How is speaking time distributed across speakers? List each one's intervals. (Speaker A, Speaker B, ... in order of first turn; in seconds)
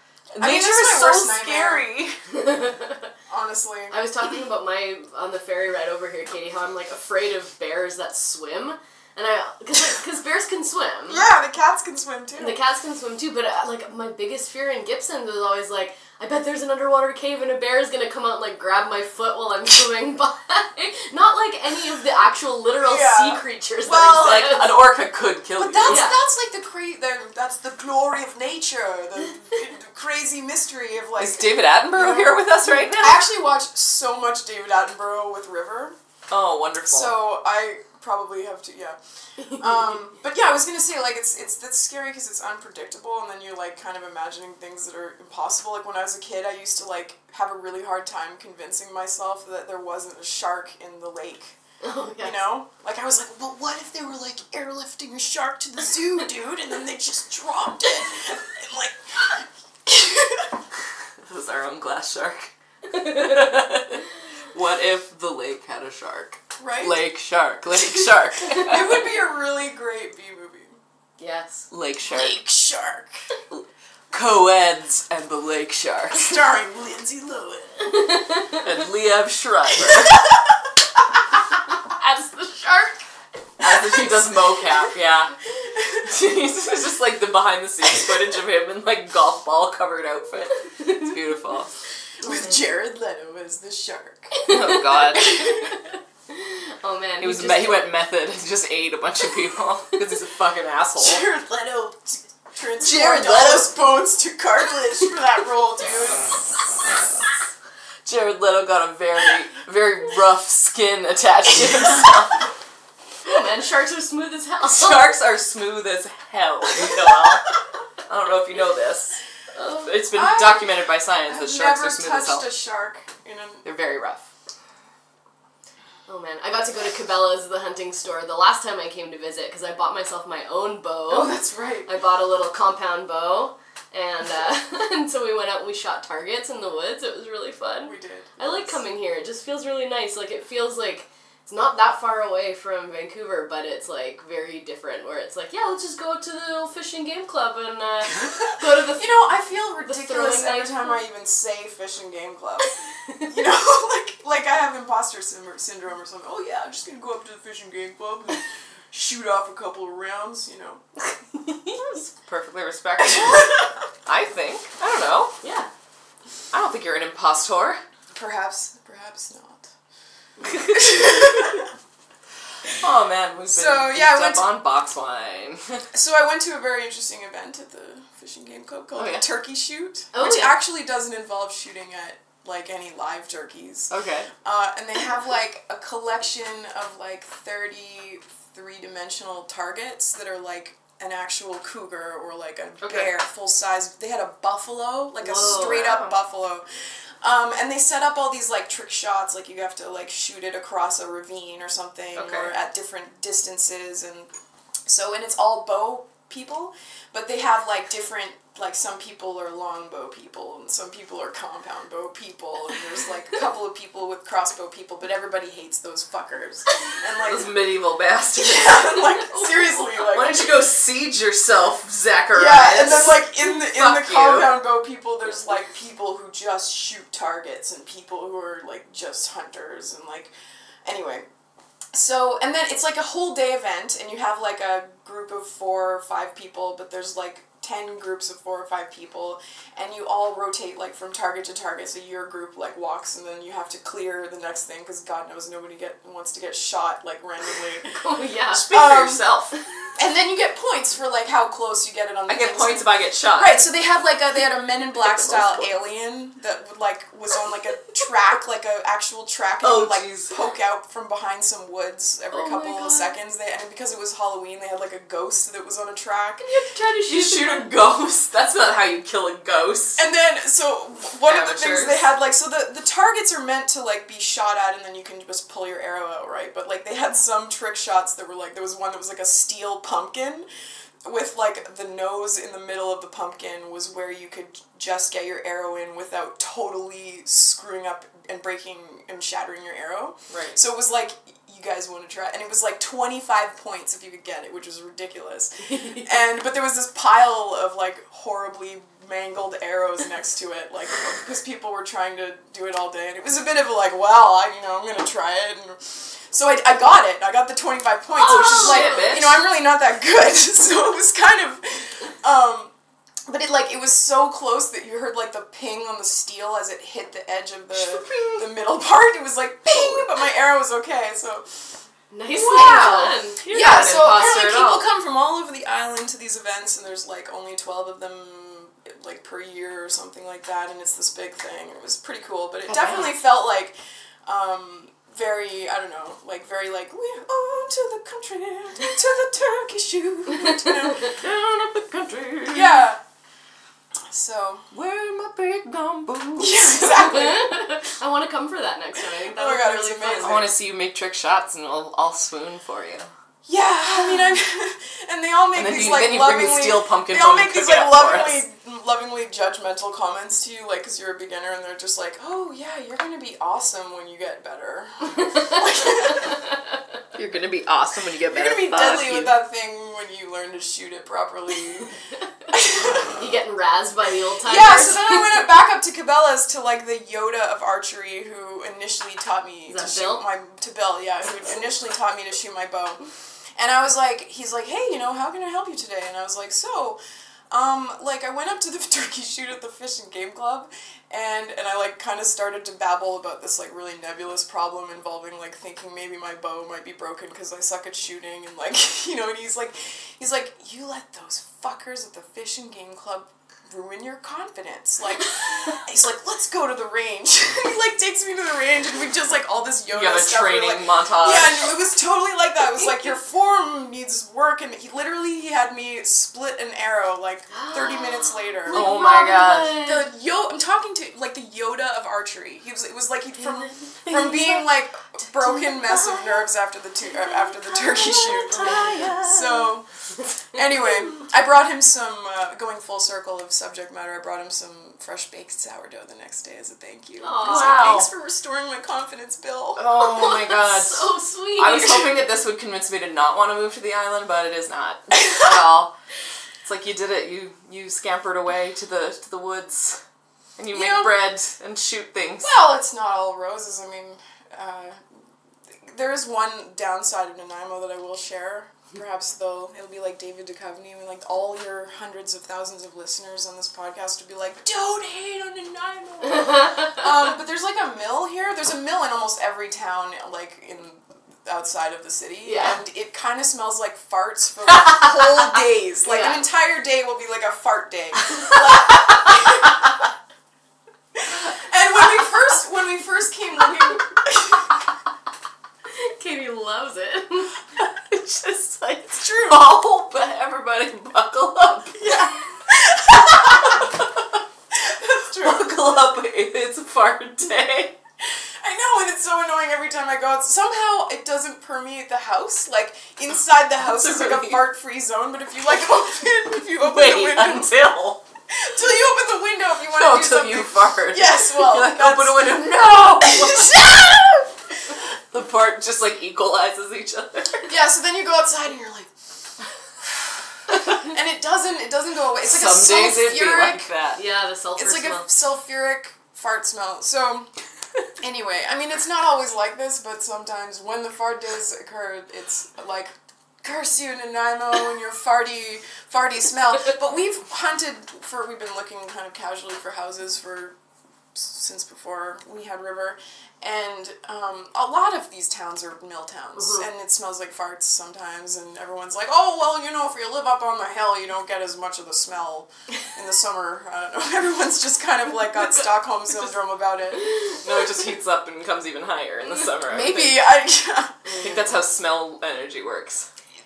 Speaker A: 0.3-2.2, 24.2-26.1, 31.2-33.3, 36.3-37.2, 61.2-69.0, 71.7-72.4, 74.1-76.4, 78.6-80.3, 83.6-85.3, 86.0-91.7, 94.5-95.3, 97.2-101.3, 102.8-103.8, 108.0-112.4, 114.6-117.5, 118.0-119.2, 119.8-122.5, 123.6-124.3, 162.0-165.3, 166.5-167.8, 172.7-175.8, 178.9-179.2, 183.9-184.3, 192.8-193.1, 195.3-196.2, 202.2-202.5, 217.2-224.6, 248.5-249.5, 252.3-253.6, 254.9-255.7, 259.6-260.4, 267.1-270.0, 271.2-272.0, 290.3-290.6, 308.1-309.4, 317.7-318.5, 319.7-320.1, 322.6-324.9, 332.7-333.1, 341.1-342.9, 344.7-346.9, 350.1-353.1, 355.6-358.4, 367.1-369.4, 409.9-411.7, 418.7-419.9, 424.1-424.6, 428.1-429.7, 437.4-438.1, 439.8-445.9, 446.6-450.0, 450.6-452.5, 487.8-492.2, 493.2-494.1, 495.4-498.0, 503.8-504.6, 506.6-508.2, 509.9-513.9, 515.3-517.7, 522.4-524.2, 557.5-560.5, 561.4-563.3
Speaker B: 0.4-1.9, 3.3-4.0, 11.1-12.6, 22.8-24.6, 25.6-36.0, 36.9-51.6, 52.2-60.5, 66.6-67.1, 68.5-70.8, 72.0-73.2, 76.1-78.0, 85.6-86.1, 92.2-94.5, 95.1-95.8, 101.0-106.3, 120.1-123.7, 131.1-131.9, 137.8-138.7, 148.9-160.8, 163.0-163.7, 168.1-169.7, 170.7-171.7, 173.5-174.5, 175.9-196.6, 197.2-204.3, 204.9-217.5, 218.3-220.6, 222.3-230.3, 230.8-231.3, 231.9-247.9, 248.7-249.2, 250.0-266.4, 270.0-280.5, 281.1-312.7, 313.3-321.7, 322.3-341.2, 342.5-343.0, 344.1-344.7, 346.4-347.7, 349.2-350.5, 353.5-366.4, 368.3-371.9, 372.5-373.1, 374.4-383.0, 383.6-387.0, 387.5-418.9, 419.8-429.9, 430.5-439.8, 450.7-451.2, 452.4-455.0, 455.8-480.0, 481.1-484.7, 489.1-489.7, 491.9-493.9, 494.7-495.8, 498.6-507.7, 508.5-514.5, 517.7-519.1, 520.0-523.9, 524.8-527.5, 528.2-540.8, 541.4-557.4, 559.8-561.4
Speaker C: 2.3-3.0, 3.9-11.2, 12.4-24.8, 25.8-26.2, 51.8-52.4, 71.2-71.7, 77.8-78.7, 81.7-83.0, 94.5-94.8, 96.3-97.9, 113.2-115.1, 119.5-119.9, 126.1-151.0, 161.5-162.0, 165.4-165.7, 170.4-170.9, 180.1-180.6, 195.2-195.9, 247.8-248.7, 262.3-263.1, 266.4-267.7, 295.7-296.1, 308.2-309.2, 322.1-324.3, 340.6-340.9, 346.9-350.4, 373.2-375.5, 379.7-380.2, 417.5-420.0, 428.1-429.1, 437.2-437.8, 440.0-442.2, 472.4-472.8, 476.1-476.4, 485.9-487.5, 524.2-525.3, 546.6-546.8, 561.2-561.6